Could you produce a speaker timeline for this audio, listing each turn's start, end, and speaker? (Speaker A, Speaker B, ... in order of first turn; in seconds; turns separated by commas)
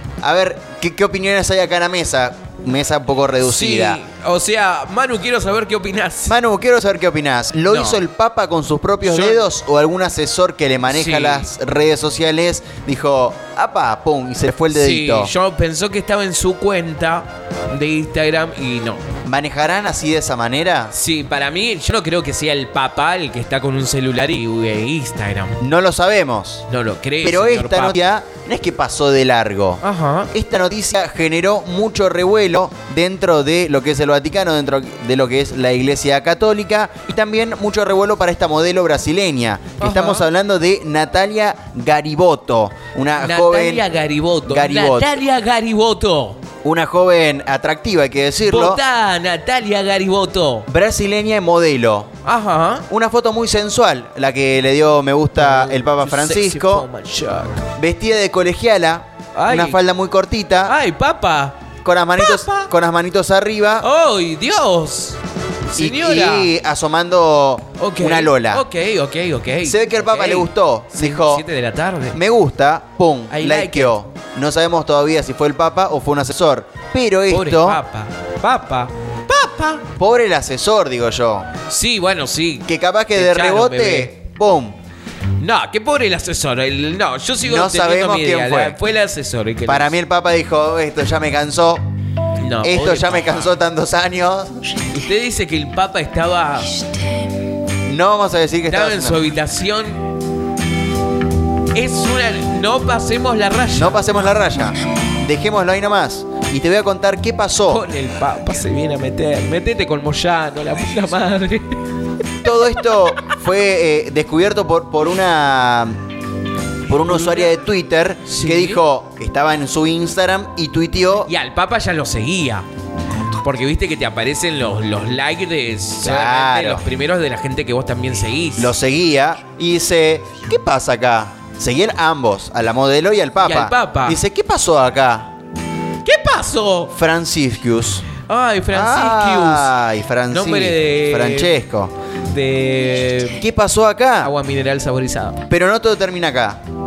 Speaker A: 0.2-4.0, Speaker B: 3.4-6.3, Speaker A: 6.3-15.3, Speaker B: 7.7-8.0, Speaker B: 9.0-9.4, Speaker B: 10.9-11.5, Speaker B: 14.7-19.0, Speaker A: 19.2-20.9, Speaker B: 20.9-25.6, Speaker A: 25.6-26.7, Speaker B: 26.7-27.9, Speaker A: 27.2-29.8, Speaker B: 29.8-30.3, Speaker A: 30.3-43.9, Speaker B: 39.8-40.3, Speaker B: 43.1-46.4, Speaker A: 44.5-45.1, Speaker A: 46.6-48.8, Speaker B: 48.5-50.7, Speaker A: 50.7-52.1, Speaker B: 52.2-52.9, Speaker A: 52.9-56.9, Speaker B: 55.4-57.7, Speaker A: 57.8-60.8, Speaker B: 59.3-59.8, Speaker B: 60.7-61.6, Speaker A: 61.8-63.9, Speaker B: 62.2-62.7, Speaker B: 63.8-65.2, Speaker B: 65.7-66.5, Speaker A: 65.8-68.6, Speaker B: 67.8-72.2, Speaker A: 69.6-71.4, Speaker A: 72.1-77.8, Speaker B: 73.3-73.9, Speaker B: 77.3-79.8, Speaker A: 79.8-81.5, Speaker B: 81.7-84.1, Speaker A: 82.7-84.8, Speaker B: 85.4-89.9, Speaker A: 87.4-88.8, Speaker A: 89.7-91.8, Speaker B: 92.4-93.5, Speaker A: 92.6-94.6, Speaker B: 94.9-96.8, Speaker A: 97.8-99.2, Speaker B: 98.7-100.0, Speaker B: 101.7-104.0, Speaker A: 103.7-107.8, Speaker B: 107.7-111.8, Speaker A: 112.4-116.0, Speaker A: 116.9-121.3, Speaker B: 117.1-117.5, Speaker B: 118.2-118.8, Speaker B: 121.2-122.7, Speaker B: 123.4-128.7, Speaker A: 126.0-126.8, Speaker A: 128.6-135.3, Speaker B: 133.4-134.2, Speaker B: 136.0-136.9, Speaker A: 136.9-138.1, Speaker B: 138.2-139.7, Speaker A: 138.7-141.9, Speaker B: 140.3-141.6, Speaker B: 142.3-143.4, Speaker A: 143.4-144.3, Speaker B: 144.2-145.4, Speaker A: 145.5-146.6